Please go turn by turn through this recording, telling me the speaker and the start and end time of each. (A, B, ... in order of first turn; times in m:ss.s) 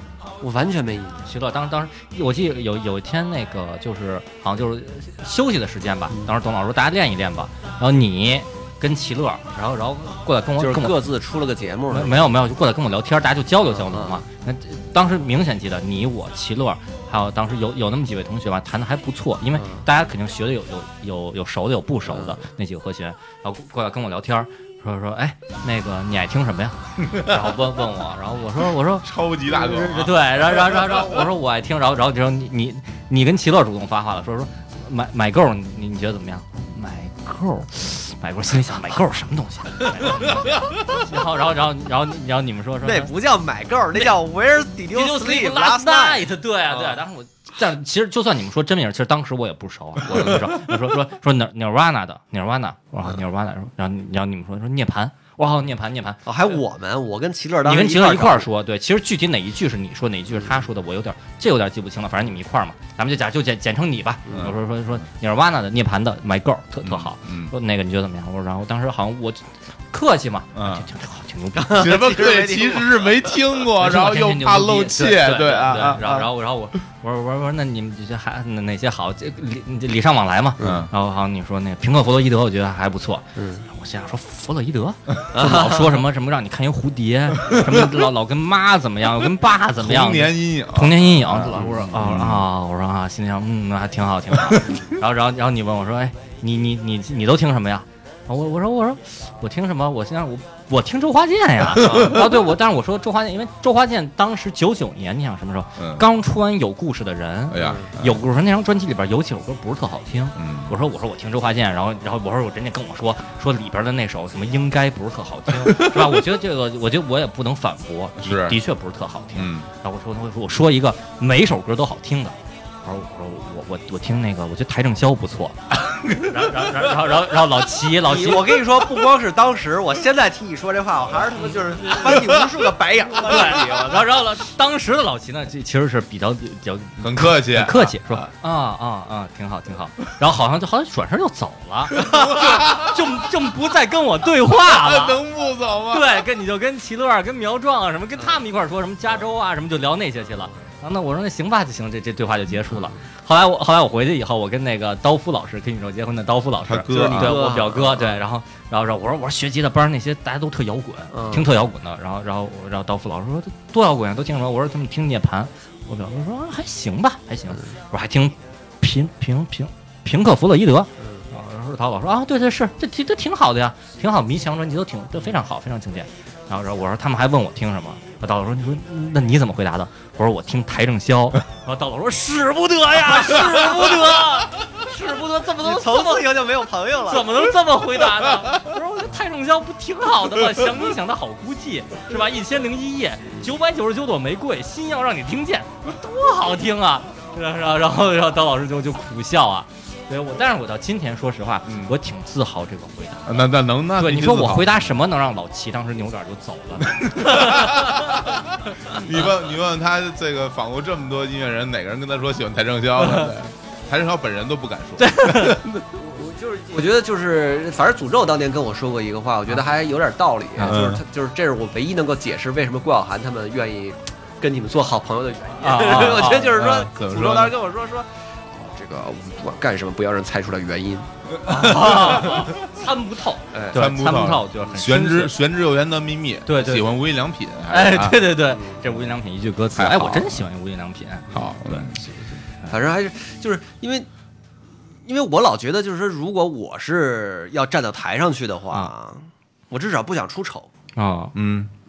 0:00.4-0:01.3 A
0:01.2-0:11.0 B
0:10.6-0:12.3 A
0:11.9-0:43.1 B
0:13.7-0:14.2 A
0:19.6-0:19.8 A
0:22.1-0:22.4 A
0:27.0-0:27.4 C
0:29.0-0:31.2 C
0:42.8-0:47.0 A
0:44.9-0:56.3 B
0:50.1-0:50.6 C
0:56.2-0:58.5 A
0:57.6-1:11.9 B
1:04.3-1:04.5 A
1:06.8-1:07.5 C
1:10.5-1:10.8 C
1:11.5-1:13.2 A
1:11.7-1:16.3 C
1:13.8-2:08.6 B
1:20.6-1:20.9 A
1:20.6-1:20.9 C
1:23.4-1:23.6 A
1:25.3-1:26.0 A
1:27.4-1:27.9 C
1:29.8-1:32.5 C
1:41.8-1:42.2 C
1:45.8-1:46.0 C
1:47.5-1:48.2 C
1:47.6-1:47.9 A
1:50.4-1:50.7 C
1:55.6-1:56.1 C
1:58.2-1:58.6 C
1:59.3-1:59.7 C
2:06.0-2:06.3 C
2:08.0-2:14.0 A
2:12.1-2:12.4 C
2:13.2-2:25.2 B
2:17.0-2:18.3 C
2:22.0-2:23.1 C
2:24.6-2:26.2 C
2:25.9-3:06.3 B
2:36.6-2:37.4 C
2:36.9-2:38.2 A
2:41.1-2:41.5 A
2:51.0-2:51.2 A
3:05.6-3:07.4 A
3:07.0-3:28.3 B
3:21.6-3:22.0 C
3:23.2-3:24.9 C
3:26.9-3:35.8 C
3:33.0-3:33.3 B
3:35.0-3:35.6 B
3:35.9-3:51.1 A
3:40.6-3:41.0 C
3:45.6-3:46.8 B
3:45.9-3:47.6 C
3:51.4-3:52.6 C
3:51.5-3:55.4 B
3:53.5-3:53.8 A
3:53.7-3:58.3 C
3:56.4-3:57.0 B
3:57.7-4:02.0 B
3:58.4-3:58.9 A
3:59.7-4:00.4 C
4:01.3-4:02.1 C
4:02.7-4:04.1 A
4:05.0-4:10.7 A
4:11.0-4:11.3 B
4:11.3-4:11.7 C